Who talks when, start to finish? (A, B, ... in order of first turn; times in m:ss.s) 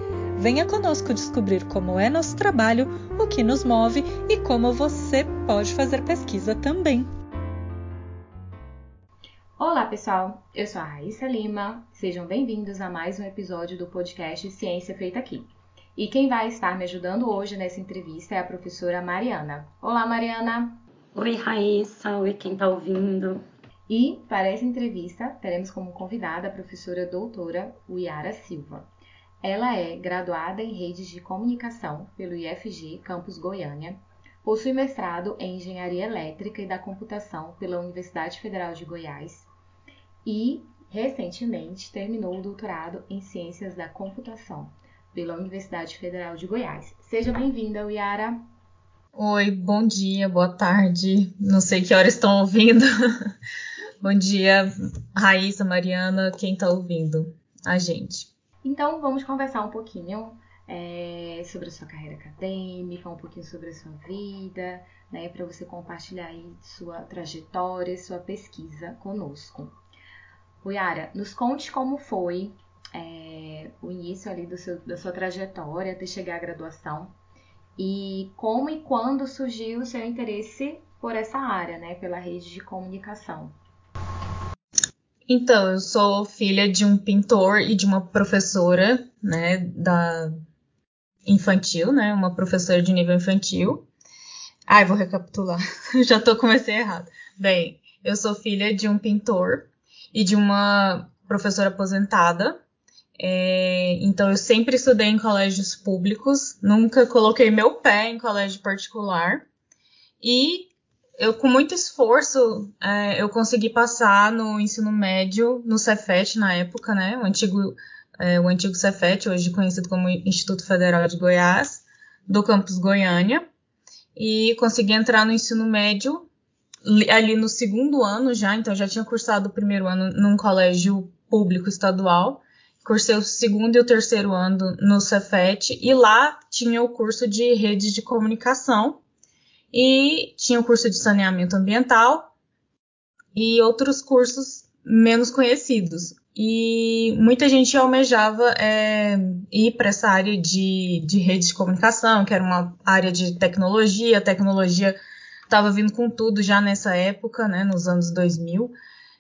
0:00.4-0:07.1 A
0:09.6-0:20.8 B
0:21.2-0:23.4 C
0:23.9-0:28.9 B
0:29.4-0:39.5 B
0:40.2-0:48.4 B
0:49.2-0:52.9 D
0:54.0-0:58.3 D
0:58.6-1:09.8 B
1:10.6-1:17.2 B
1:17.8-1:23.6 B
1:25.3-1:30.3 D
1:31.3-1:33.9 D
1:34.7-1:42.6 D
1:43.2-1:49.5 D
1:50.2-2:03.4 D
2:04.2-2:06.3 D
2:06.8-2:19.0 D
2:19.7-2:22.3 D
2:23.4-2:35.0 D
2:35.5-2:38.7 D